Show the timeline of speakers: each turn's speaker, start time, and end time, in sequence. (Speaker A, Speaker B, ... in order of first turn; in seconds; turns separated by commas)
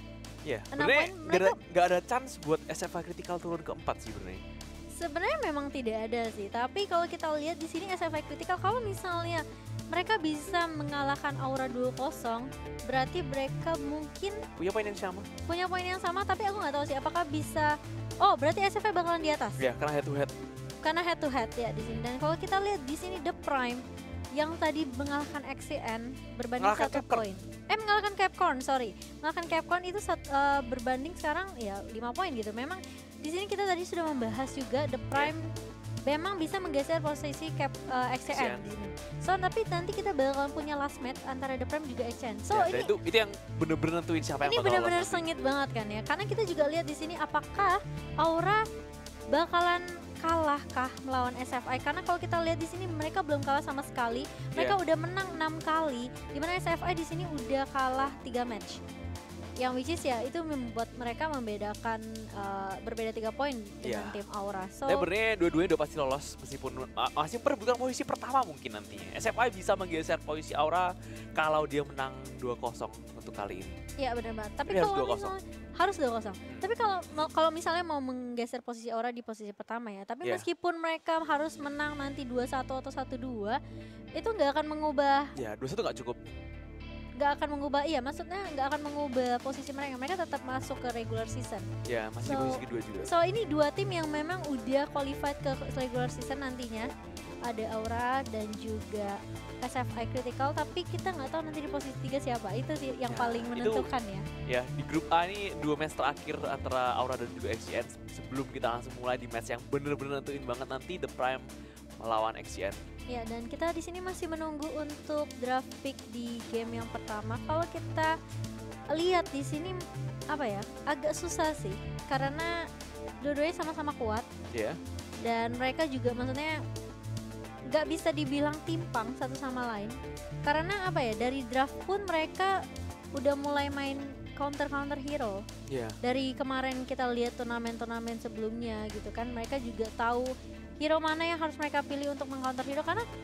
Speaker A: 0.4-4.4, Speaker B: 0.7-1.6, Speaker B: 5.0-14.4, Speaker A: 14.6-15.3, Speaker B: 15.5-19.6, Speaker A: 19.6-20.3, Speaker B: 20.8-23.8, Speaker B: 24.4-35.5, Speaker A: 26.6-27.3, Speaker B: 36.1-42.9, Speaker A: 38.3-38.7, Speaker A: 42.5-45.2, Speaker B: 44.4-48.6, Speaker B: 49.3-58.8, Speaker B: 59.6-65.1, Speaker A: 63.8-64.2, Speaker A: 64.9-73.8, Speaker B: 74.0-83.6, Speaker A: 74.7-75.3, Speaker B: 84.2-85.3, Speaker A: 85.4-86.5, Speaker B: 87.2-91.7, Speaker A: 91.8-93.1, Speaker B: 92.2-96.9, Speaker B: 97.4-104.3, Speaker A: 103.1-103.9, Speaker A: 104.5-111.5, Speaker A: 112.0-112.8, Speaker B: 113.1-118.1, Speaker B: 118.9-122.7, Speaker B: 123.2-124.3, Speaker A: 124.5-124.8, Speaker B: 125.2-126.6, Speaker B: 127.7-129.9, Speaker B: 130.5-132.6, Speaker B: 133.2-135.4, Speaker A: 135.7-136.0, Speaker B: 136.0-143.1